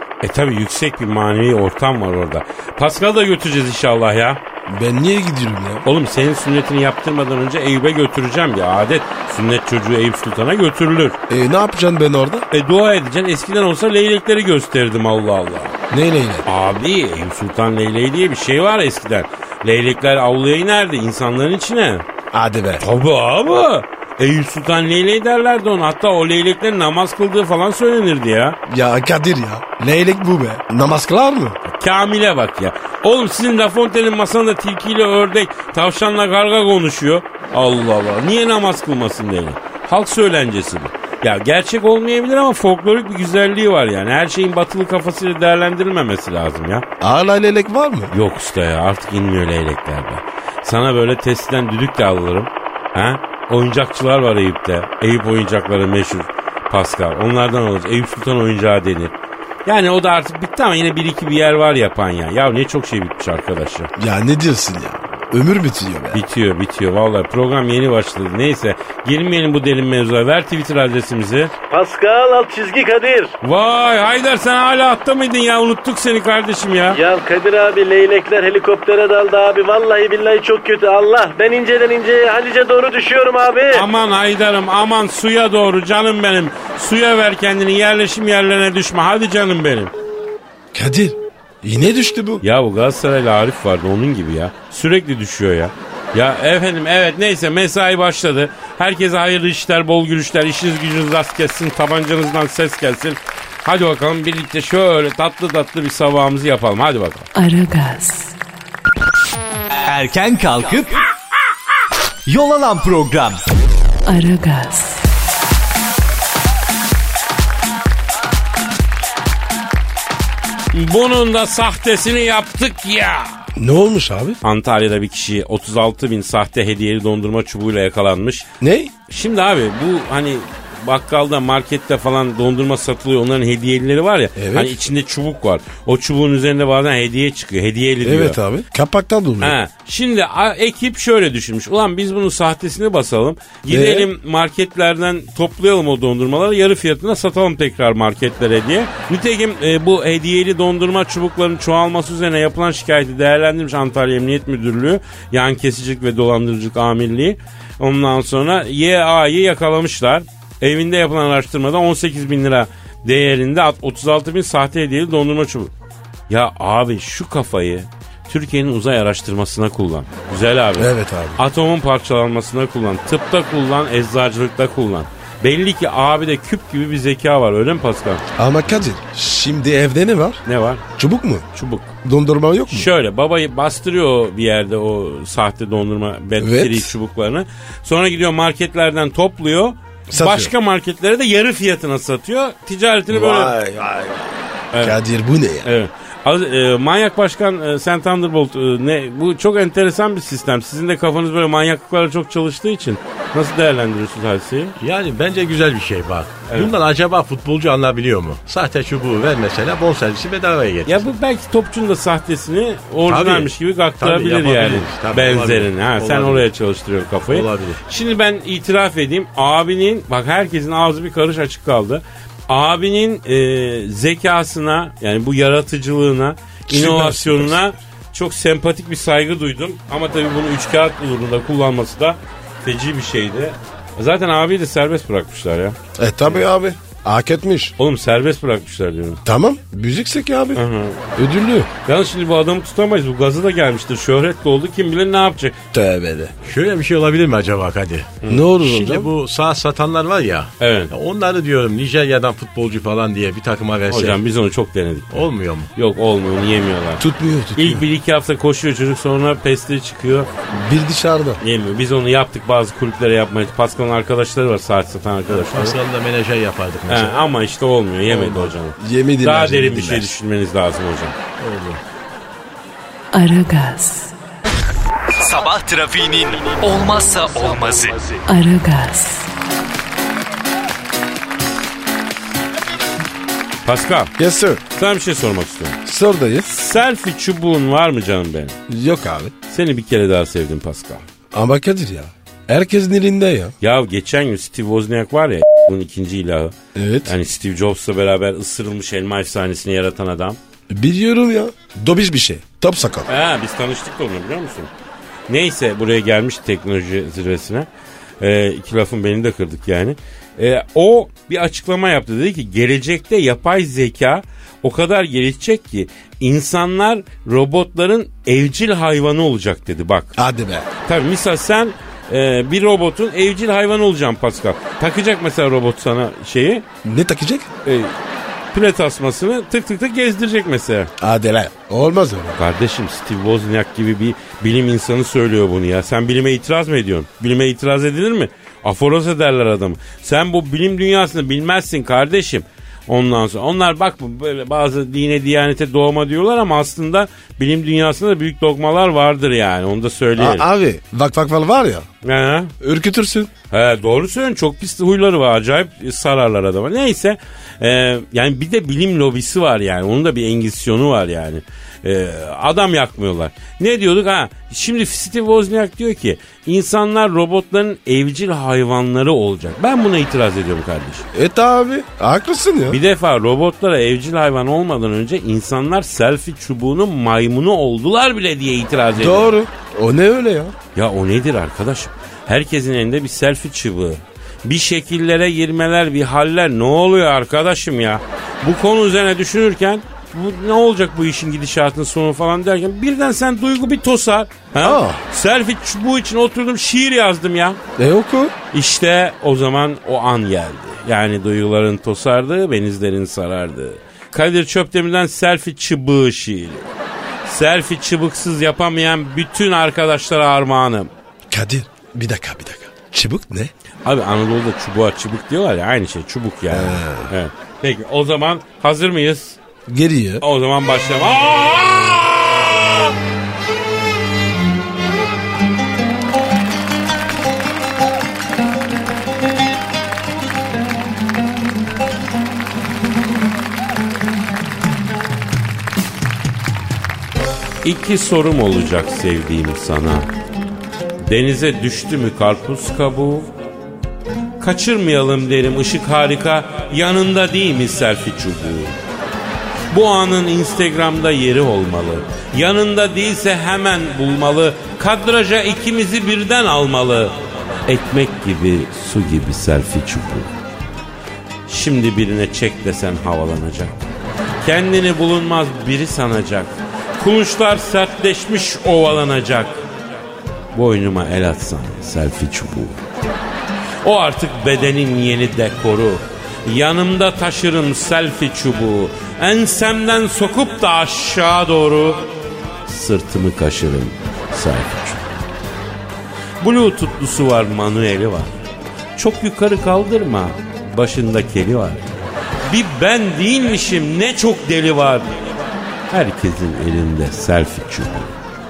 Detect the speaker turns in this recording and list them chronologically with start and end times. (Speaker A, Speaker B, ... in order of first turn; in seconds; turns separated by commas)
Speaker A: 0.2-4.4, Speaker B: 4.7-5.9, Speaker A: 5.8-11.2, Speaker B: 11.3-12.5, Speaker A: 12.5-15.8, Speaker B: 15.9-16.5, Speaker A: 16.4-22.1, Speaker B: 22.3-22.9, Speaker A: 22.8-28.6, Speaker B: 28.7-31.6, Speaker A: 31.8-46.9, Speaker B: 47.0-48.1, Speaker A: 48.1-59.1, Speaker A: 59.7-63.9, Speaker B: 64.0-66.2, Speaker A: 66.1-71.5, Speaker C: 71.7-73.3, Speaker A: 73.4-77.0, Speaker C: 76.9-83.8, Speaker A: 83.7-89.9, Speaker B: 90.7-92.4, Speaker A: 92.4-107.3, Speaker D: 107.3-108.3, Speaker E: 109.8-111.0, Speaker E: 112.3-113.4, Speaker D: 114.0-115.0, Speaker A: 120.7-123.4, Speaker B: 123.6-124.4, Speaker A: 124.4-128.5, Speaker B: 128.6-128.9, Speaker A: 129.1-138.4, Speaker B: 134.4-134.8, Speaker B: 138.0-139.6, Speaker A: 139.4-165.7, Speaker B: 143.7-144.1, Speaker A: 166.3-178.2, Speaker B: 170.8-171.4, Speaker B: 178.4-180.4, Speaker A: 180.5-180.8, Speaker B: 181.0-181.4, Speaker A: 181.5-181.9, Speaker B: 182.0-182.9, Speaker A: 182.7-193.6, Speaker B: 186.4-186.9, Speaker B: 190.1-190.5, Speaker B: 193.1-195.7, Speaker A: 195.6-204.8, Speaker F: 204.8-211.1, Speaker A: 210.9-235.8, Speaker F: 213.1-216.5, Speaker F: 217.3-217.8, Speaker B: 226.7-227.6, Speaker B: 236.0-237.8, Speaker A: 237.8-239.2, Speaker B: 239.2-240.7, Speaker A: 240.5-241.0, Speaker B: 241.2-241.7, Speaker A: 241.9-245.6, Speaker B: 245.7-246.3, Speaker F: 246.4-254.2, Speaker B: 248.3-249.1, Speaker A: 250.6-250.9, Speaker A: 253.9-257.0, Speaker F: 255.1-255.7, Speaker B: 257.0-257.9, Speaker A: 257.6-260.3, Speaker B: 260.5-261.4, Speaker A: 261.4-265.8, Speaker F: 265.3-267.2, Speaker A: 266.9-271.1, Speaker F: 268.1-268.5, Speaker B: 268.8-270.1, Speaker F: 271.4-271.8, Speaker D: 273.1-274.1, Speaker E: 275.1-278.2, Speaker D: 278.3-279.3, Speaker A: 283.6-284.1, Speaker B: 284.2-284.6, Speaker A: 284.7-285.8, Speaker B: 285.9-286.6, Speaker A: 286.5-288.6, Speaker B: 288.7-289.3, Speaker A: 289.5-291.0, Speaker B: 291.3-293.5, Speaker A: 293.6-296.5, Speaker B: 296.8-297.1, Speaker A: 297.1-300.4, Speaker B: 300.7-303.1, Speaker A: 303.1-304.7, Speaker A: 305.3-307.7, Speaker A: 308.2-320.1, Speaker B: 320.2-320.7, Speaker A: 320.9-326.6, Speaker B: 326.8-327.5, Speaker A: 327.6-327.9, Speaker A: 328.5-330.9, Speaker B: 331.0-332.4, Speaker A: 332.4-350.5, Speaker B: 350.2-351.9, Speaker A: 352.0-352.5, Speaker B: 352.6-353.3, Speaker A: 353.5-371.1, Speaker B: 371.1-372.8, Speaker A: 372.7-379.4, Speaker B: 379.0-380.6, Speaker A: 380.8-397.6, Speaker B: 394.6-395.0, Speaker B: 397.8-398.3, Speaker A: 398.5-406.7, Speaker A: 407.2-410.9, Speaker B: 411.3-413.5, Speaker A: 413.9-419.4, Speaker B: 416.5-417.1, Speaker B: 419.7-420.2, Speaker A: 420.2-422.9, Speaker A: 437.6-440.1, Speaker A: 441.0-443.3, Speaker A: 444.4-448.8, Speaker A: 449.7-457.2, Speaker A: 457.7-460.3, Speaker A: 461.5-463.8, Speaker A: 464.4-469.6, Speaker A: 470.5-472.8, Speaker A: 473.8-482.1, Speaker A: 482.7-485.1, Speaker A: 486.4-488.3, Speaker A: 489.0-491.8, Speaker A: 492.5-495.3, Speaker A: 495.9-498.2